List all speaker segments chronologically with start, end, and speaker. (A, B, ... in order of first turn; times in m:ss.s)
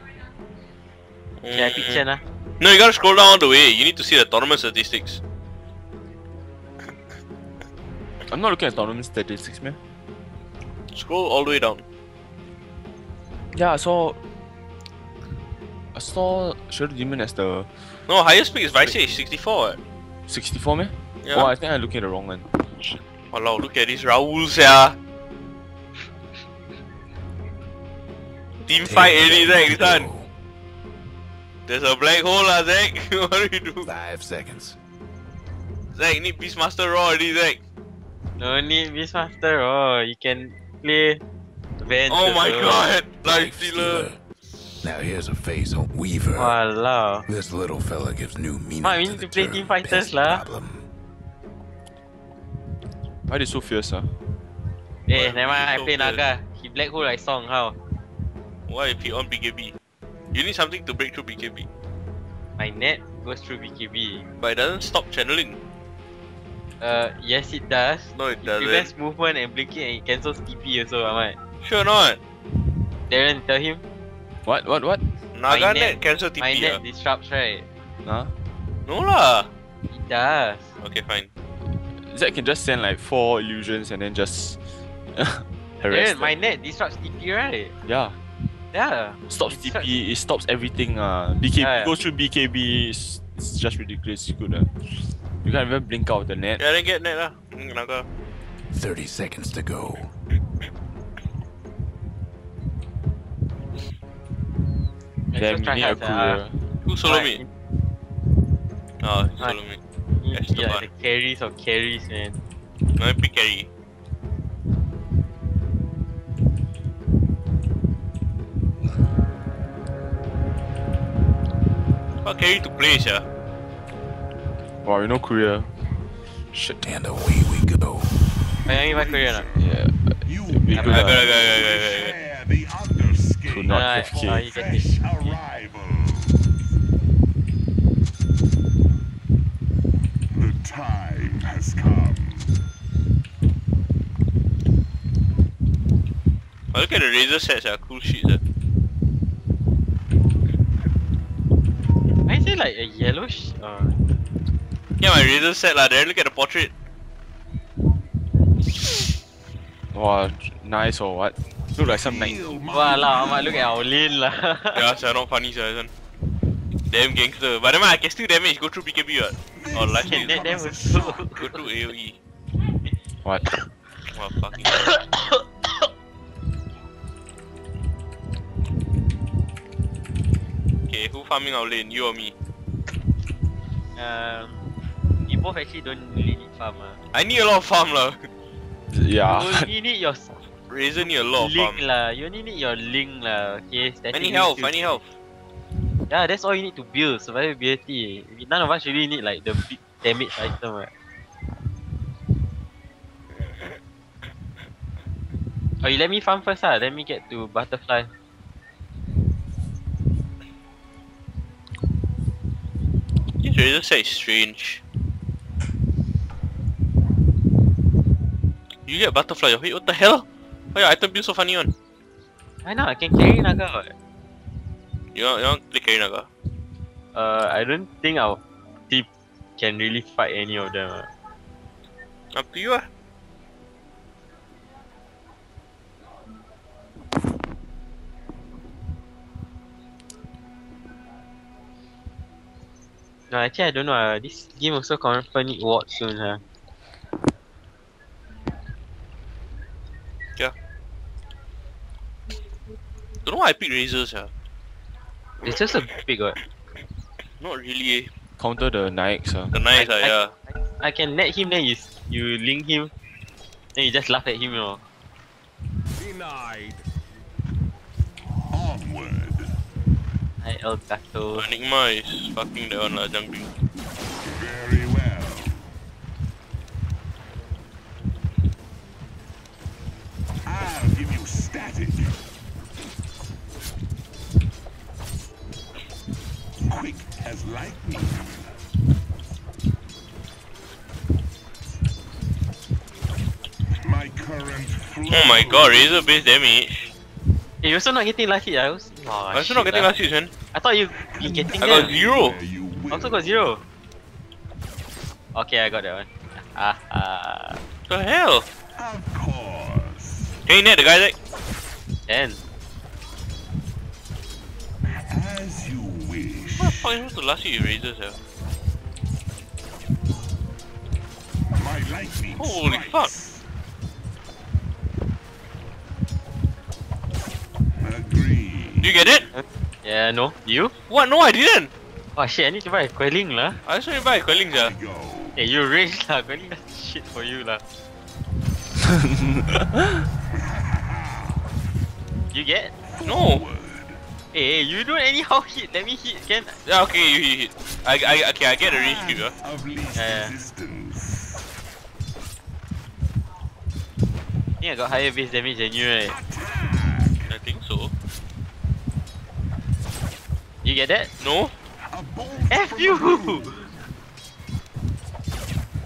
0:01.4-0:02.0 A
0:01.5-0:02.2 B
0:02.6-0:05.2 A
0:08.3-0:09.8 C
0:10.9-0:11.8 A
0:13.5-0:14.2 C
0:15.9-0:17.7 C
0:18.1-0:19.8 A
0:20.3-0:22.5 C
0:21.2-0:21.5 A
0:23.3-0:25.0 A
0:28.7-0:30.1 A
0:28.8-0:30.3 D
0:31.7-0:33.9 A
0:33.8-0:34.8 D
0:36.0-0:37.6 A
0:38.4-0:41.2 B
0:41.8-0:43.0 B
0:42.1-0:44.1 A
0:43.2-0:44.2 D
0:44.8-0:46.6 D
0:46.4-0:47.2 B
0:47.3-0:50.9 D
0:48.8-0:50.4 B
0:53.3-0:54.1 C
0:55.1-0:57.8 B
0:55.1-0:56.2 A
0:58.7-0:59.8 A
1:00.3-1:01.7 A
1:02.6-1:04.3 B
1:04.4-1:05.6 A
1:06.8-1:11.4 B
1:08.2-1:08.9 A
1:11.6-1:12.2 A
1:13.1-1:13.8 B
1:14.4-1:15.1 C
1:15.3-1:16.8 A
1:15.5-1:17.7 B
1:18.0-1:18.3 C
1:18.9-1:19.5 A
1:19.9-1:20.7 B
1:20.8-1:21.3 A
1:21.8-1:26.3 C
1:25.8-1:27.8 B
1:27.8-1:28.2 C
1:28.7-1:29.9 B
1:29.3-1:36.6 C
1:31.6-1:32.0 B
1:36.6-1:38.1 A
1:38.7-1:40.1 D
1:45.3-1:46.4 B
1:45.4-1:46.6 C
1:46.8-1:47.4 A
1:47.0-1:47.5 B
1:49.0-1:49.8 A
1:50.2-1:52.4 B
1:50.3-1:50.9 A
1:53.0-1:53.7 A
2:02.2-2:03.2 A
2:04.8-2:05.7 C
2:06.5-2:06.8 C
2:06.8-2:08.2 D
2:08.6-2:16.6 E
2:08.7-2:09.5 B
2:09.6-2:11.4 C
2:10.8-2:11.1 B
2:10.8-2:12.1 A
2:13.5-2:14.4 C
2:13.7-2:15.3 B
2:20.3-2:22.6 E
2:26.7-2:28.4 A
2:32.3-2:34.0 B
2:35.0-2:36.7 A
2:39.9-2:42.4 C
2:41.8-2:43.9 E
2:42.7-2:44.9 B
2:44.7-2:45.9 A
2:46.9-2:50.4 A
2:49.6-2:51.3 E
2:49.9-2:51.6 B
2:51.4-2:52.2 A
2:53.2-2:53.7 C
2:54.1-2:54.9 A
2:54.7-2:55.8 B
3:00.9-3:02.3 A
3:04.0-3:04.7 B
3:05.3-3:07.0 B
3:07.1-3:08.3 A
3:08.9-3:09.7 C
3:09.2-3:10.4 B
3:10.7-3:11.8 A
3:11.3-3:15.0 B
3:14.1-3:15.1 A
3:16.1-3:20.9 B
3:25.8-3:28.1 B
3:33.4-3:34.8 A
3:38.9-3:41.7 A
3:42.6-3:43.9 B
3:45.1-3:46.3 A
3:47.2-3:51.1 B
3:52.3-3:52.9 A
4:03.3-4:06.4 B
4:13.2-4:14.3 A
4:15.4-4:16.4 B
4:17.4-4:18.1 A
4:18.4-4:19.6 C
4:19.5-4:20.3 A
4:19.7-4:22.9 B
4:23.8-4:24.8 B
4:28.5-4:29.5 E
4:30.4-4:31.4 B
4:31.3-4:33.5 A
4:34.2-4:35.7 E
4:40.5-4:42.2 E
4:46.7-4:48.5 E
4:53.8-4:56.1 E
4:55.1-4:56.9 A
4:57.6-4:59.9 B
4:59.3-5:00.3 A
5:00.5-5:02.1 B
5:00.9-5:03.6 E
5:01.6-5:02.4 A
5:02.9-5:03.6 B
5:05.4-5:07.6 B
5:07.9-5:08.5 A
5:08.8-5:10.4 E
5:10.5-5:11.2 A
5:12.1-5:12.4 B
5:14.9-5:17.0 E
5:16.6-5:18.2 A
5:21.5-5:23.4 E
5:22.4-5:23.1 A
5:27.8-5:29.0 E
5:28.8-5:29.3 A
5:29.8-5:30.7 B
5:30.9-5:31.7 A
5:32.2-5:33.6 B
5:33.7-5:34.8 A
5:34.5-5:35.5 E
5:35.4-5:37.6 B
5:39.1-5:39.8 C
5:40.3-5:41.4 E
5:42.3-5:42.7 B
5:42.8-5:44.0 E
5:43.0-5:43.4 A
5:44.3-5:46.6 B
5:46.6-5:49.3 A
5:48.7-5:51.5 E
5:50.0-5:50.3 B
5:54.6-5:56.2 B
5:56.0-5:57.4 E
5:57.3-5:57.9 A
6:00.6-6:01.1 B
6:01.2-6:01.5 A
6:01.9-6:03.6 E
6:02.5-6:03.6 B